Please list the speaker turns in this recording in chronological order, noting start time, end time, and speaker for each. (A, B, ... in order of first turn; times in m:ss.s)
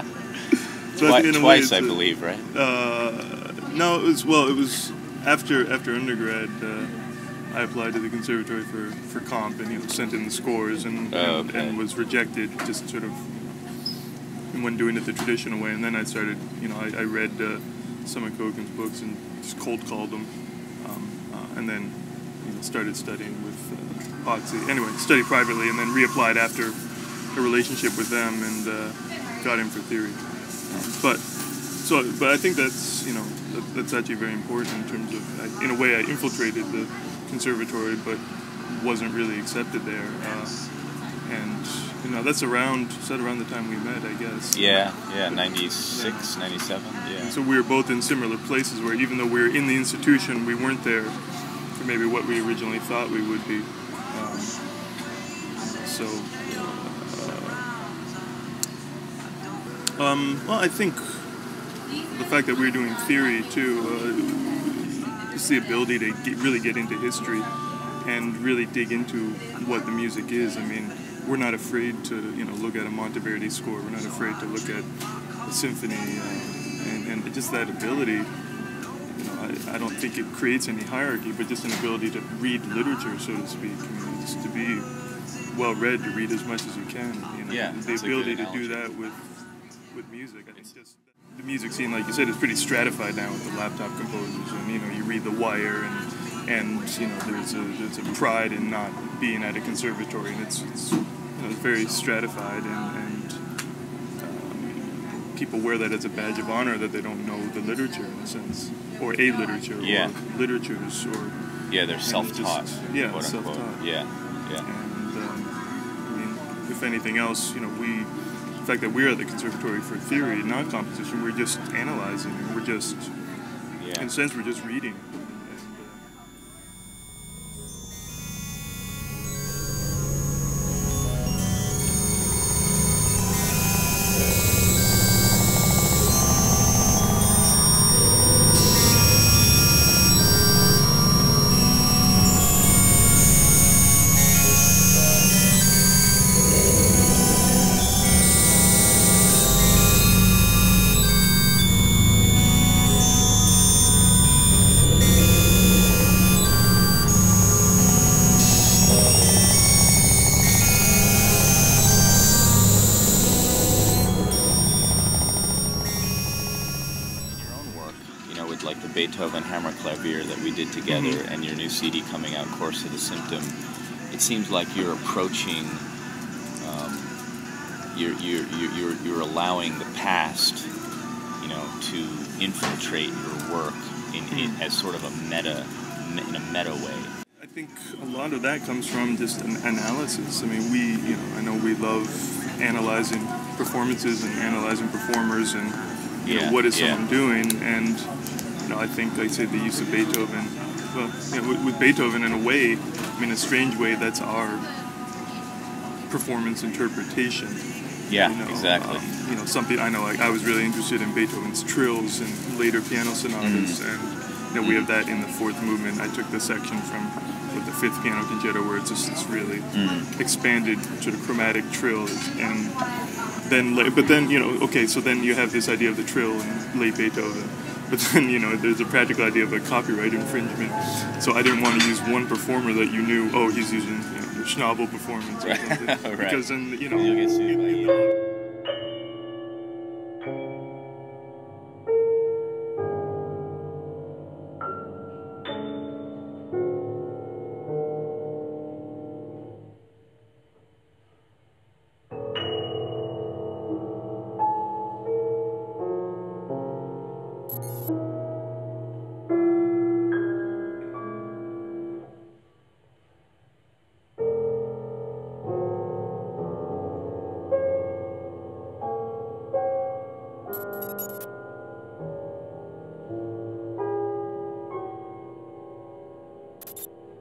0:00.5-0:07.0 A
0:01.0-0:02.5 B
0:07.5-0:13.6 A
0:11.1-0:11.8 B
0:14.5-0:26.8 A
0:27.3-0:40.6 A
0:41.2-0:46.4 A
0:44.5-0:47.4 B
0:47.2-0:51.2 A
0:51.7-0:54.6 A
0:55.5-0:57.7 A
1:00.0-1:01.3 A
1:02.0-1:07.5 A
1:08.0-1:14.9 A
1:15.4-1:18.3 A
1:19.1-1:24.9 A
1:25.5-1:29.3 A
1:27.5-1:28.9 B
1:29.9-1:43.4 A
1:44.2-1:51.4 A
1:49.8-1:50.1 B
1:51.7-1:54.7 B
1:52.0-1:53.8 A
1:54.6-2:03.1 A
2:03.8-2:04.1 B
2:03.9-2:06.0 A
2:47.3-2:53.6 B
2:50.9-2:51.2 A
2:54.1-2:55.8 B
2:56.6-2:57.1 B
2:57.9-3:00.7 B
3:01.4-3:07.1 B
3:04.3-3:04.6 A
3:07.4-3:18.1 A
3:16.2-3:17.0 B
3:18.6-3:24.6 A
3:26.1-3:27.6 A
3:28.1-3:29.0 B
3:28.2-3:42.8 A
3:33.4-3:33.8 B
3:34.6-3:34.9 B
3:39.7-3:40.1 B
3:43.4-3:58.0 A
3:55.4-3:58.0 B